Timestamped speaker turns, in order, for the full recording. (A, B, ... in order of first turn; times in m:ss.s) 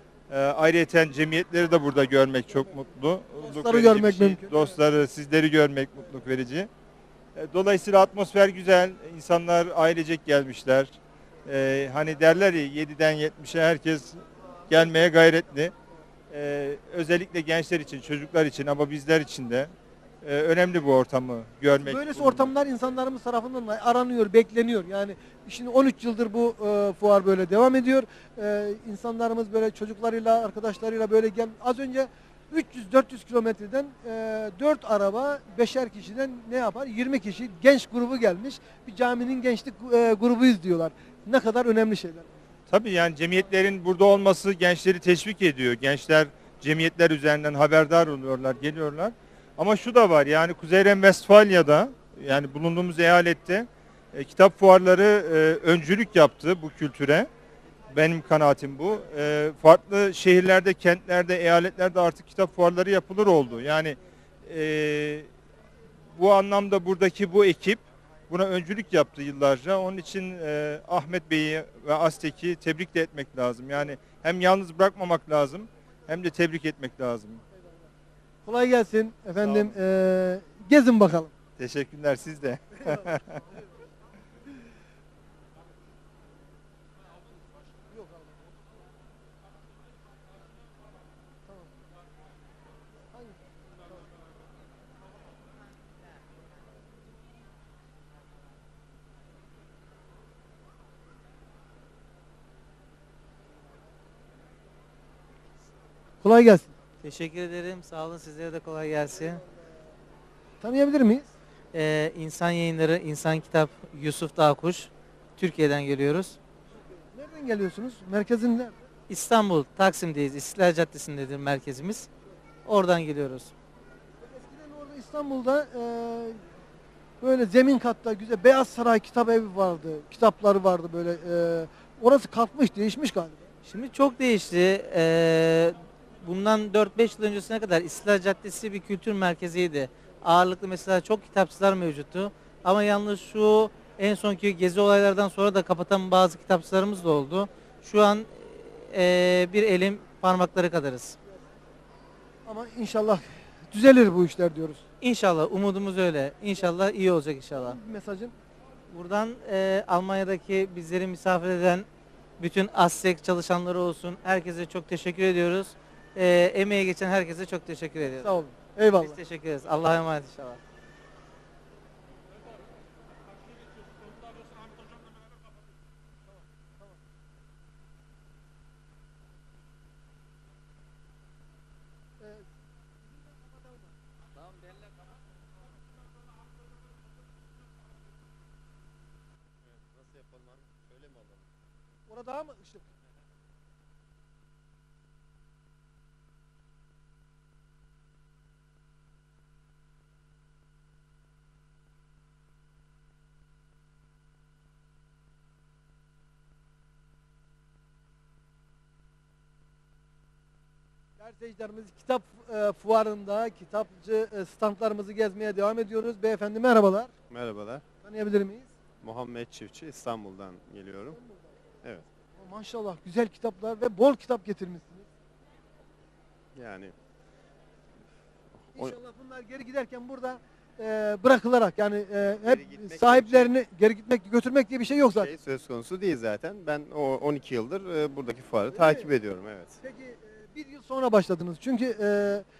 0:00.3-0:06.7 A
0:03.4-0:04.5 B
0:07.4-0:15.7 A
0:16.3-0:22.5 A
0:21.8-0:42.3 B
0:42.7-0:57.3 A
0:57.9-1:05.3 A
1:06.2-1:17.4 A
1:18.4-1:21.3 B
1:19.4-1:19.7 A
1:21.6-1:23.4 A
1:46.2-1:46.7 B
1:47.0-1:49.4 C
1:50.6-1:51.3 B
1:51.7-1:56.4 C
1:57.1-1:58.7 B
1:59.1-2:02.1 C
2:02.6-2:03.5 C
2:04.2-2:06.4 B
2:07.2-2:13.5 B
2:13.6-2:31.2 C
2:32.5-2:34.8 B
2:35.0-2:37.8 C
2:37.6-2:38.3 B
2:38.9-2:41.9 C
2:42.4-2:48.4 C
2:48.0-2:49.2 B
2:49.0-2:50.6 C
3:02.2-3:02.5 B
3:03.3-3:03.9 B
3:09.7-3:11.4 D
3:12.1-3:12.8 B
3:31.2-3:37.1 B
3:37.3-3:37.8 D
3:38.0-3:38.7 B
3:39.0-3:41.2 D
3:42.4-3:45.1 B
3:46.6-3:46.9 D
3:48.7-3:55.3 B
3:52.3-3:53.5 D
3:55.1-3:59.8 D
3:58.7-3:59.1 B
3:59.8-4:02.4 B